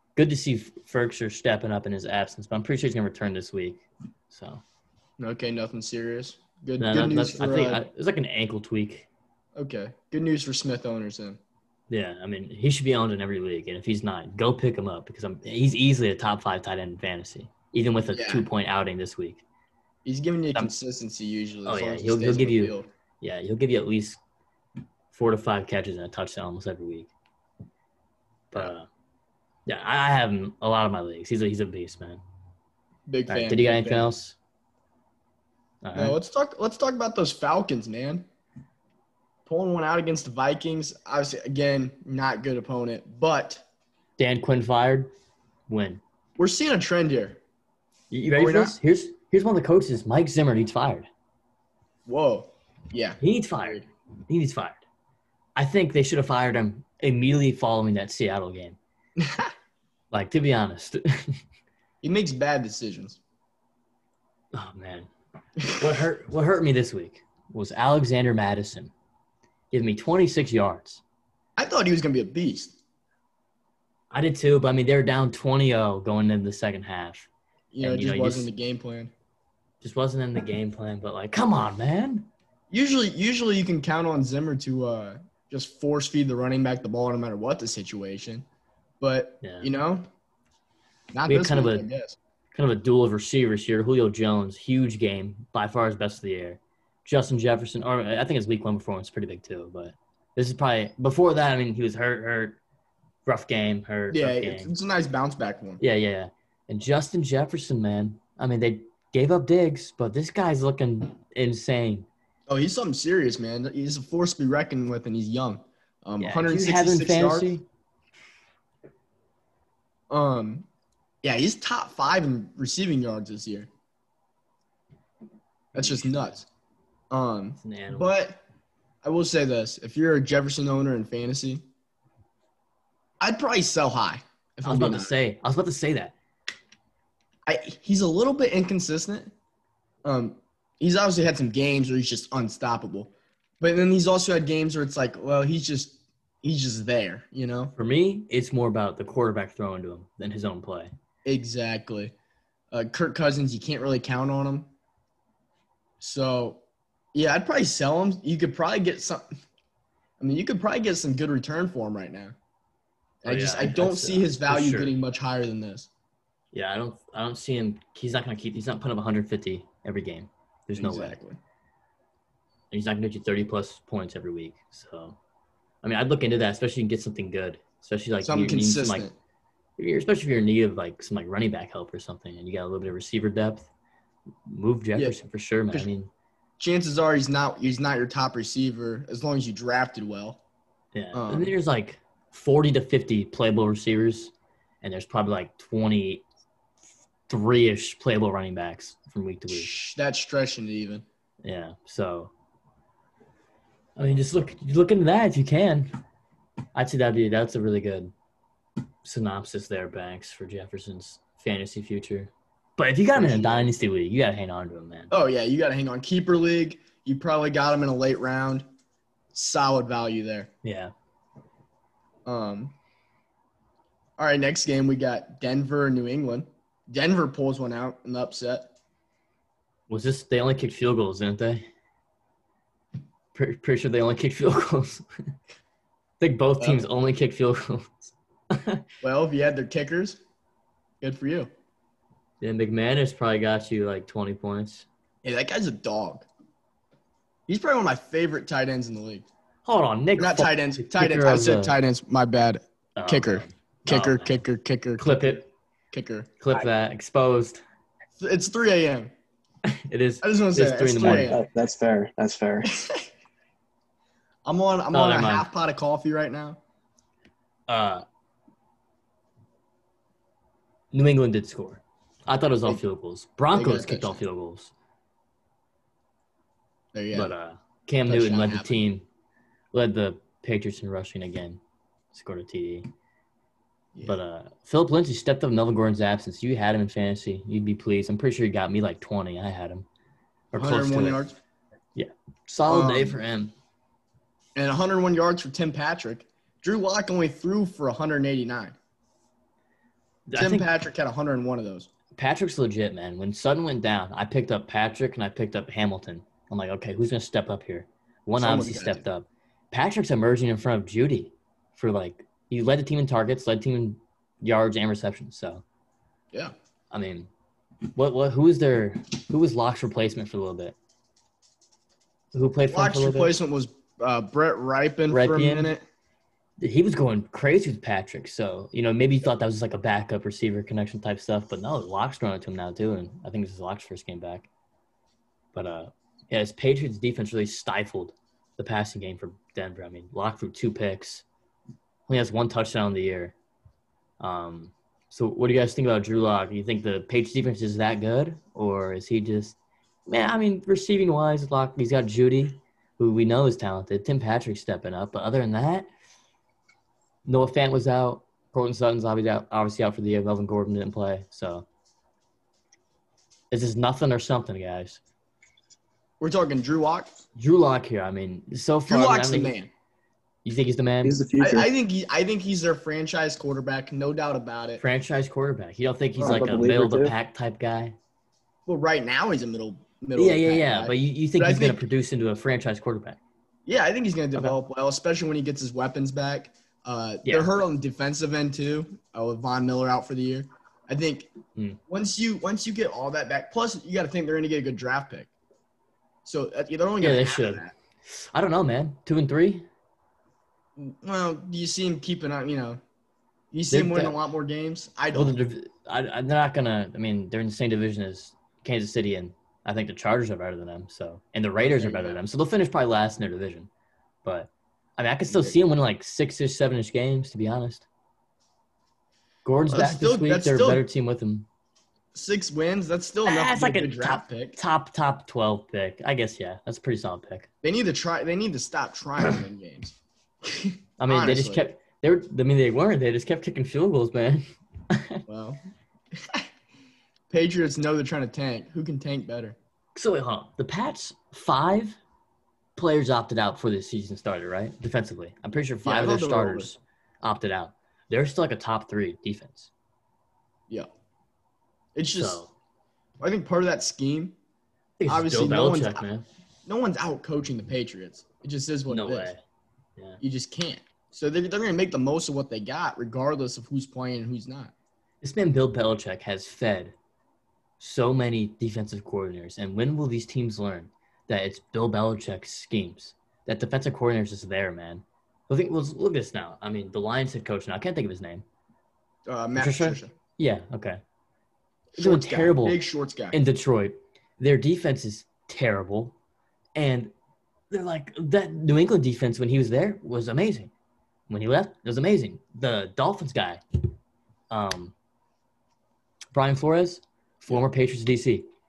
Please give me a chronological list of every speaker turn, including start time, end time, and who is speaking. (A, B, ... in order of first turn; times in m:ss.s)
0:00.2-0:04.6 A
0:05.2-0:07.8 B
0:06.8-0:09.1 A
0:09.5-0:11.4 B
0:11.9-0:19.4 A
0:18.1-0:18.4 B
0:20.0-0:22.9 B
0:21.6-0:24.2 A
0:25.1-0:27.1 A
0:28.5-0:28.9 A
0:29.6-0:32.2 A
0:33.1-0:34.1 B
0:33.3-0:34.4 A
0:35.8-0:36.2 A
0:36.0-0:38.3 B
0:39.4-0:43.6 B
0:44.2-0:45.1 A
0:45.7-0:46.0 A
0:46.4-0:47.4 B
0:48.1-0:51.1 A
0:48.4-0:48.8 B
0:52.1-0:53.8 B
0:53.2-0:54.8 A
0:55.6-0:58.8 A
0:59.2-0:59.5 B
1:00.1-1:01.4 A
1:02.0-1:03.2 B
1:04.5-1:05.1 A
1:05.7-1:08.9 A
1:09.7-1:11.0 A
1:11.6-1:12.7 B
1:14.1-1:17.3 A
1:17.7-1:19.1 B
1:17.8-1:18.5 A
1:19.8-1:22.3 A
1:22.7-1:28.4 B
1:29.0-1:30.0 B
1:29.4-1:29.7 A
1:31.1-1:32.2 B
1:31.3-1:31.8 A
1:32.5-1:42.6 A
1:43.2-1:44.7 A
1:44.1-1:45.8 B
1:45.8-1:52.1 A
1:52.5-1:57.5 B
1:56.2-1:57.6 A
2:00.1-2:00.7 B
2:01.2-2:03.7 B
2:05.7-2:06.4 B
2:05.8-2:06.4 A
2:07.1-2:08.4 B
2:07.6-2:08.1 A
2:09.0-2:11.6 B
2:13.2-2:15.1 B
2:14.6-2:16.1 A
2:17.4-2:19.3 B
2:20.0-2:27.7 B
2:27.8-2:30.9 A
2:31.2-2:32.1 B
2:32.7-2:34.7 B
2:36.0-2:36.6 B
2:37.1-2:39.3 B
2:40.2-2:42.3 B
2:43.2-2:45.9 B
2:43.2-2:44.9 A
2:46.5-2:51.2 A
2:50.8-2:51.4 B
2:52.7-2:55.2 A
2:55.8-2:59.1 A
2:58.2-2:59.1 B
2:59.8-3:03.7 A
3:04.5-3:06.1 A
3:06.6-3:10.4 B
3:10.9-3:16.2 A
3:11.1-3:11.5 B
3:17.3-3:19.7 A
3:19.5-3:21.0 B
3:21.4-3:22.3 A
3:24.0-3:25.9 A
3:26.7-3:28.1 A
3:29.0-3:35.1 A
3:33.1-3:33.7 B
3:35.1-3:38.6 B
3:39.3-3:40.5 B
3:40.6-3:40.9 A
3:42.2-3:42.7 B
3:44.2-3:48.7 B
3:49.9-3:51.6 A
3:53.3-3:55.0 A
3:56.2-3:58.8 A
3:56.6-3:56.8 B
3:59.0-4:00.2 B
4:01.0-4:01.5 B
4:02.4-4:04.8 A
4:05.2-4:06.3 B
4:07.5-4:09.2 B
4:09.6-4:11.8 A
4:10.2-4:15.4 B
4:13.0-4:14.4 A
4:15.0-4:15.4 A
4:15.9-4:16.3 B
4:16.4-4:17.6 A
4:18.2-4:19.1 B
4:19.7-4:21.4 A
4:20.2-4:21.4 B
4:21.1-4:22.7 C
4:24.4-4:26.6 B
4:24.9-4:25.5 A
4:27.7-4:28.0 A
4:30.9-4:34.7 A
4:33.5-4:34.2 B
4:36.9-4:37.3 B
4:37.1-4:39.0 A
4:38.1-4:38.8 B
4:39.7-4:41.6 A
4:42.1-4:42.9 A
4:44.0-4:49.8 A
4:50.5-4:51.2 A
4:50.5-4:51.3 B
4:52.0-4:53.5 A
4:52.7-4:53.2 B
4:54.6-4:58.8 B
5:00.3-5:00.7 A
5:00.4-5:01.9 B
5:02.1-5:15.6 A
5:08.4-5:09.0 B
5:16.9-5:17.3 A
5:17.9-5:20.8 A
5:22.3-5:23.3 A
5:22.7-5:25.8 B
5:25.1-5:25.7 A
5:26.6-5:34.5 A
5:35.5-5:41.2 A
5:42.1-5:43.3 A
5:44.2-5:55.9 A
5:57.2-6:01.6 A
6:03.5-6:05.0 A
6:06.2-6:07.1 B
6:07.4-6:09.5 A
6:08.9-6:09.7 B
6:10.4-6:11.2 A
6:11.0-6:11.7 C
6:11.4-6:14.8 B
6:14.8-6:18.0 A
6:16.2-6:17.1 C
6:16.2-6:16.5 B
6:18.7-6:21.8 B
6:20.1-6:23.2 A
6:23.6-6:31.3 B
6:31.9-6:35.3 B
6:36.2-6:37.7 B
6:37.0-6:39.7 A
6:40.8-6:42.8 B
6:43.5-6:45.4 B
6:43.7-6:44.2 A
6:45.1-6:53.7 A
6:51.6-6:52.2 B
6:54.2-6:57.9 A
6:55.3-6:55.5 B
6:59.4-7:01.5 A
6:59.7-7:00.8 B
7:02.1-7:04.6 B
7:03.2-7:07.5 A
7:07.6-7:11.6 B
7:11.0-7:15.2 A
7:15.3-7:15.6 B
7:16.1-7:16.4 B
7:17.3-7:19.6 B
7:19.9-7:22.0 A
7:22.8-7:29.7 A
7:25.8-7:26.7 B
7:31.9-7:32.4 B
7:32.2-7:32.5 A
7:33.2-7:34.3 B
7:35.0-7:36.3 A
7:35.1-7:36.0 B
7:36.6-7:39.3 B
7:38.9-7:39.4 A
7:40.2-7:44.7 B
7:45.2-7:46.9 A
7:47.8-7:58.4 A
7:59.2-8:00.1 B
7:59.5-8:01.0 A
8:01.9-8:03.4 B
8:02.0-8:02.8 A
8:03.3-8:06.1 A
8:06.8-8:07.1 A
8:07.7-8:10.7 A
8:11.3-8:13.6 A
8:14.5-8:14.9 A
8:16.3-8:18.5 A